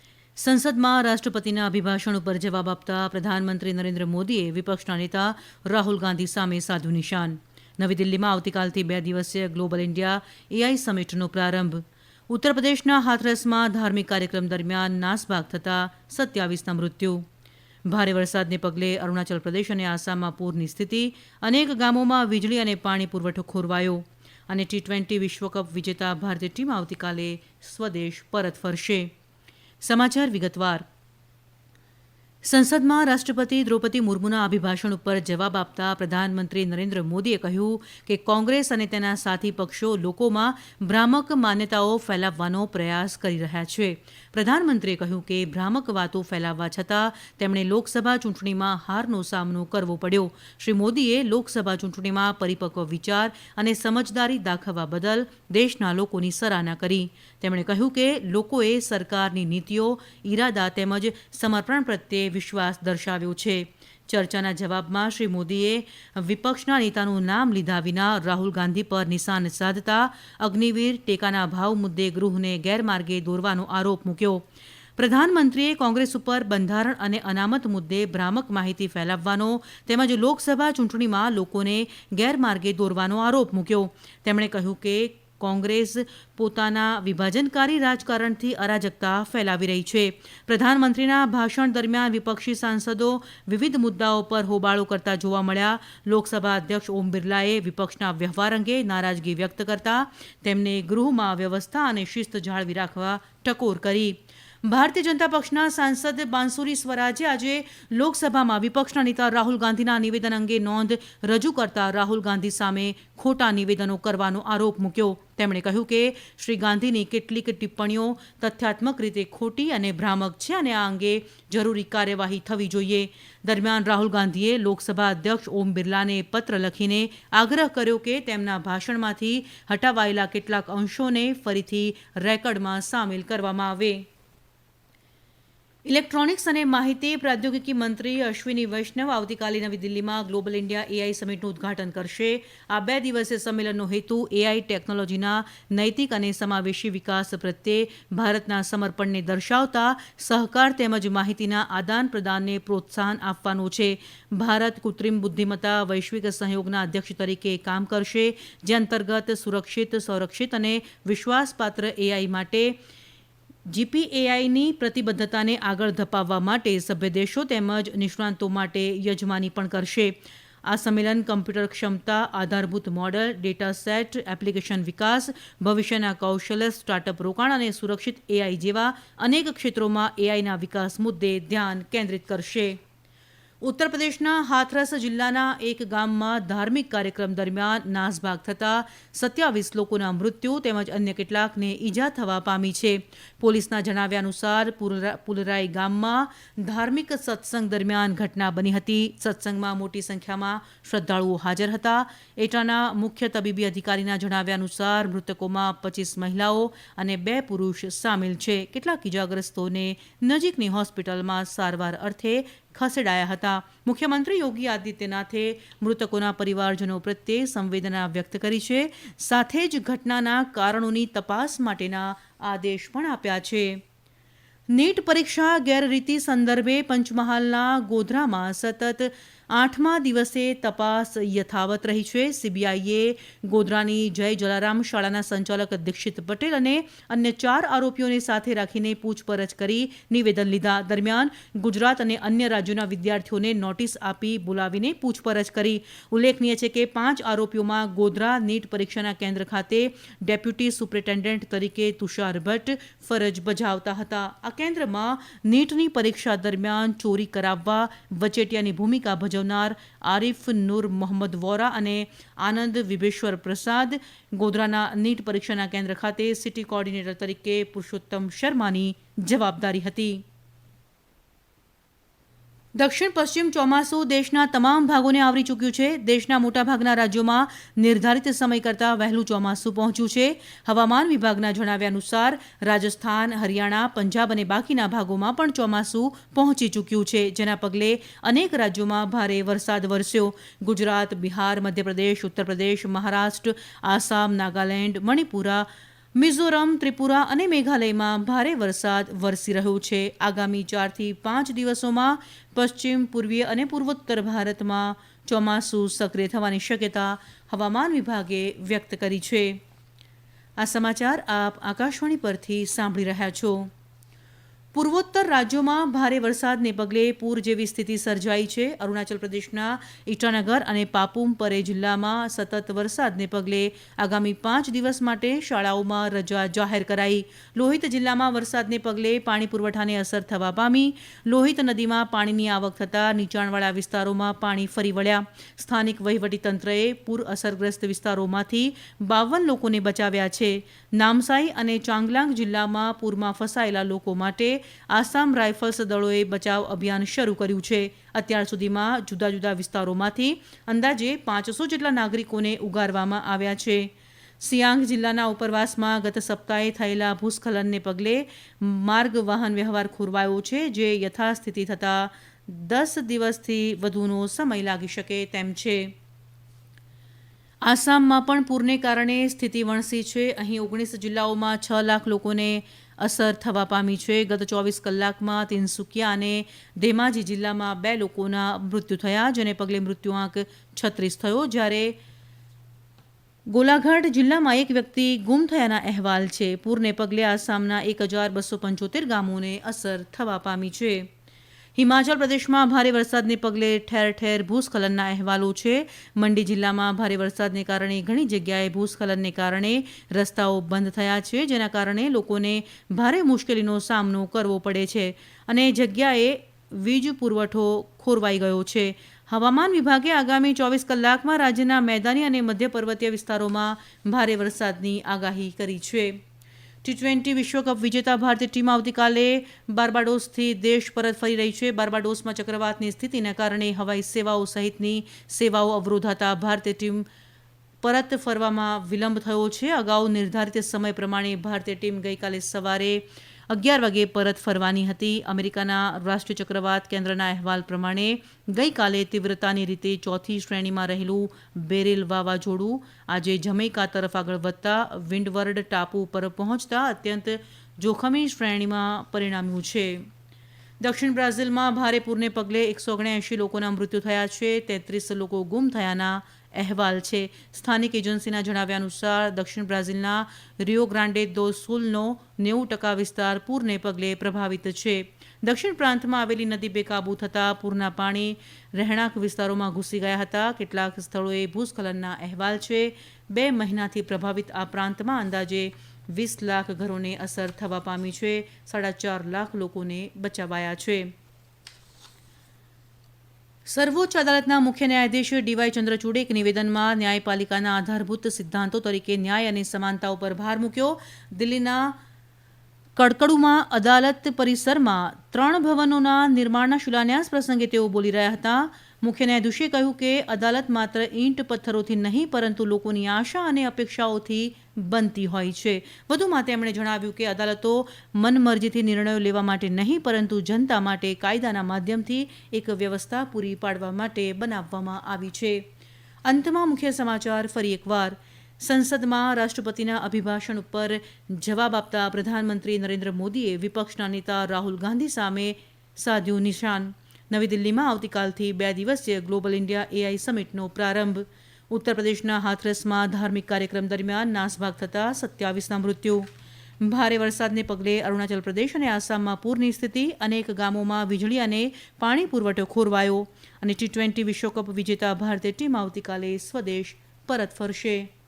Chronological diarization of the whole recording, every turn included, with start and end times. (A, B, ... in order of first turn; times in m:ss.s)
0:00.4-0:17.2 A
0:17.8-0:29.1 A
0:29.8-0:30.8 A
0:32.4-1:14.4 A
1:15.0-2:14.0 A
2:15.8-2:42.8 A
2:43.7-3:02.8 A
3:03.6-3:43.8 A
3:44.7-4:30.2 A
4:32.8-5:09.6 A
5:10.6-5:13.7 A
5:14.7-6:05.9 A
6:07.6-6:22.0 A
6:23.5-6:31.1 A
6:31.8-6:56.2 A
6:56.8-7:07.0 A
7:07.8-7:30.1 A
7:30.8-8:01.1 A
8:03.7-8:12.0 A
8:13.0-8:35.6 A
8:36.2-8:56.3 A
8:56.8-9:08.1 A